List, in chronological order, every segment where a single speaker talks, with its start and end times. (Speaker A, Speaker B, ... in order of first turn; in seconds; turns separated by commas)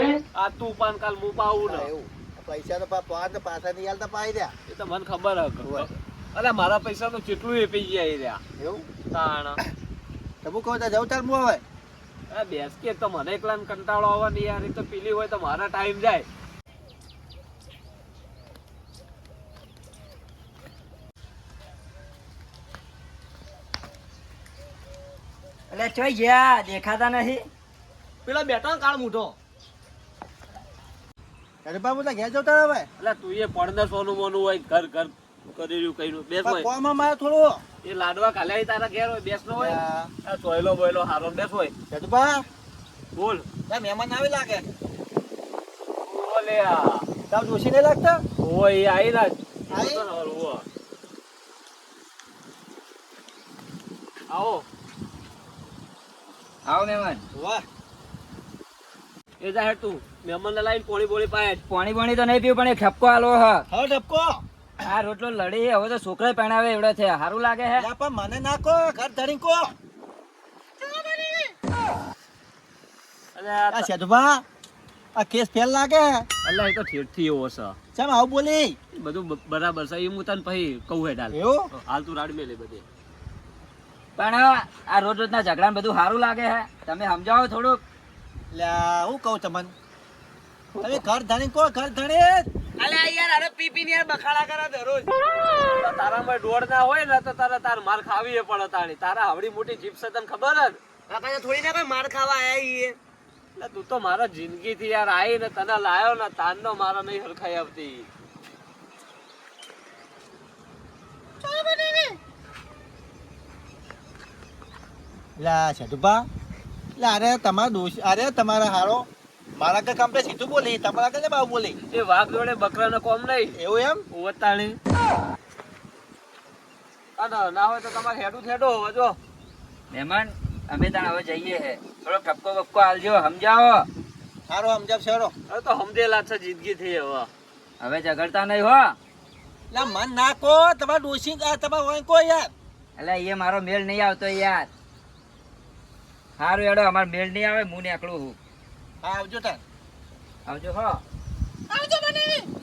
Speaker A: 0.3-1.9, Speaker B: 1.6-4.5, Speaker A: 4.7-8.4, Speaker B: 8.6-8.9, Speaker A: 9.1-9.6, Speaker B: 10.4-11.6, Speaker A: 12.3-16.3, Speaker C: 25.7-27.5, Speaker D: 28.3-29.4, Speaker B: 31.6-32.9, Speaker A: 33.0-36.7, Speaker B: 36.4-37.6, Speaker A: 37.8-41.7, Speaker B: 39.5-40.1, Speaker B: 41.9-42.5, Speaker A: 43.2-43.5, Speaker B: 43.7-44.7, Speaker A: 46.0-47.1, Speaker B: 47.3-48.2, Speaker A: 48.4-50.6, Speaker B: 49.7-50.1, Speaker A: 54.3-54.6, Speaker C: 56.7-57.2, Speaker B: 57.4-57.6, Speaker A: 59.4-61.6, Speaker C: 61.7-63.7, Speaker B: 63.7-64.4, Speaker C: 64.8-67.9, Speaker B: 67.8-69.7, Speaker B: 70.9-71.5, Speaker A: 73.4-73.9, Speaker B: 73.7-74.4, Speaker B: 75.2-76.3, Speaker A: 76.5-77.8, Speaker B: 77.9-78.8, Speaker A: 79.0-82.8, Speaker B: 81.3-81.7, Speaker C: 84.2-87.8, Speaker B: 88.5-89.7, Speaker A: 90.8-91.0, Speaker B: 90.8-92.5, Speaker D: 92.8-95.1, Speaker A: 95.7-100.8, Speaker D: 101.1-103.0, Speaker A: 103.6-108.1, Speaker D: 111.5-112.1, Speaker B: 115.4-116.2, Speaker B: 117.0-121.8, Speaker A: 121.9-123.6, Speaker B: 123.5-124.0, Speaker A: 124.1-124.8, Speaker A: 127.2-129.2, Speaker C: 129.9-133.9, Speaker B: 134.5-135.3, Speaker A: 135.5-137.3, Speaker C: 137.8-139.0, Speaker B: 139.7-142.5, Speaker C: 143.0-144.7, Speaker C: 146.4-148.4, Speaker B: 149.0-149.6, Speaker C: 150.5-151.0, Speaker B: 151.7-152.4